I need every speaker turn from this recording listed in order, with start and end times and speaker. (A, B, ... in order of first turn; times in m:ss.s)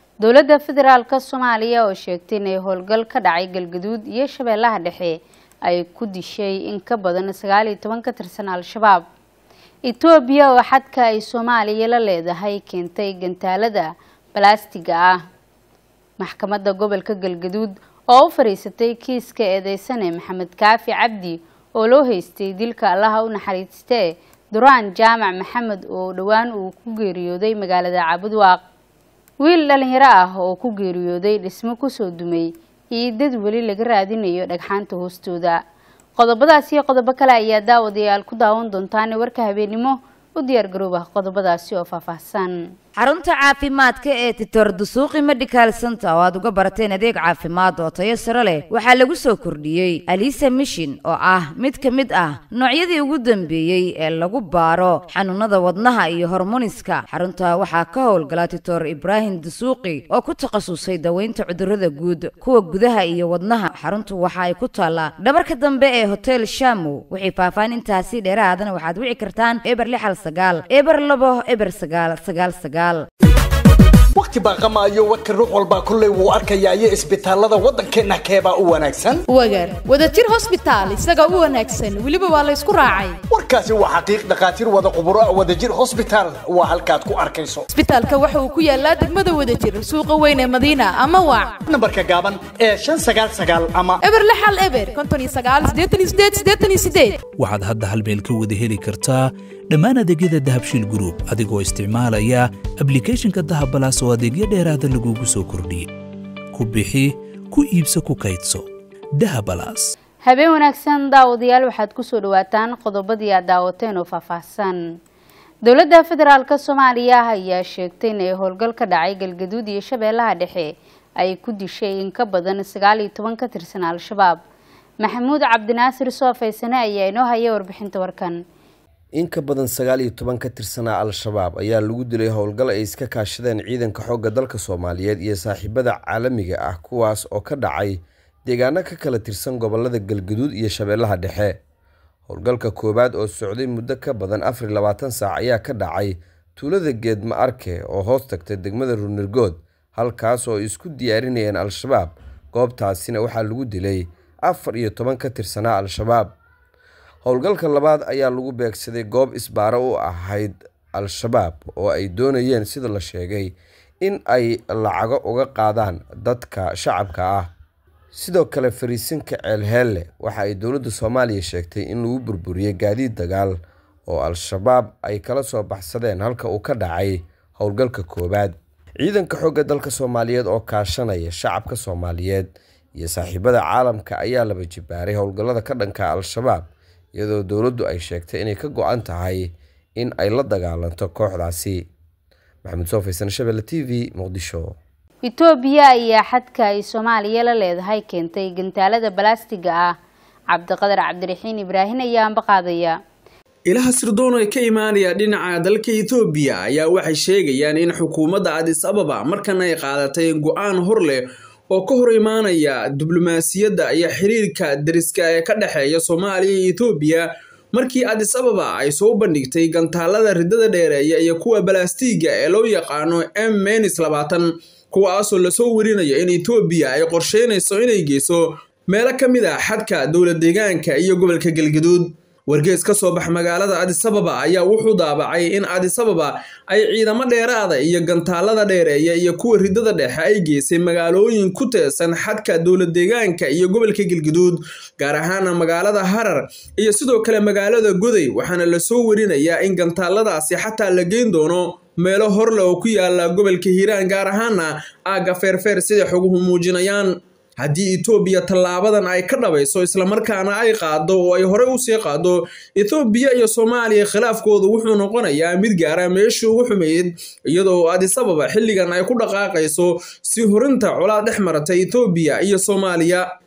0:00.2-0:09.0 A
0:09.9-0:15.2 A
0:16.2-0:24.0 A
0:24.5-0:28.6 A
0:29.4-0:35.6 A
0:36.2-0:42.5 A
0:43.0-1:13.0 B
1:14.1-1:19.2 C
1:19.3-1:23.2 D
1:23.3-1:27.7 C
1:27.7-1:31.6 D
1:31.7-1:34.0 C
1:34.0-1:37.2 D
1:37.4-1:45.9 E
1:46.5-1:48.6 E
1:49.2-1:49.9 E
1:50.2-1:54.8 A
1:55.6-2:00.7 A
2:01.2-2:04.4 A
2:05.0-2:08.4 A
2:09.2-2:21.6 F
2:22.3-2:36.3 F
2:37.2-2:47.5 F
2:48.1-3:11.8 F
3:12.6-3:14.7 F
3:15.2-3:19.9 A
3:20.5-3:23.0 A
3:23.7-4:33.2 G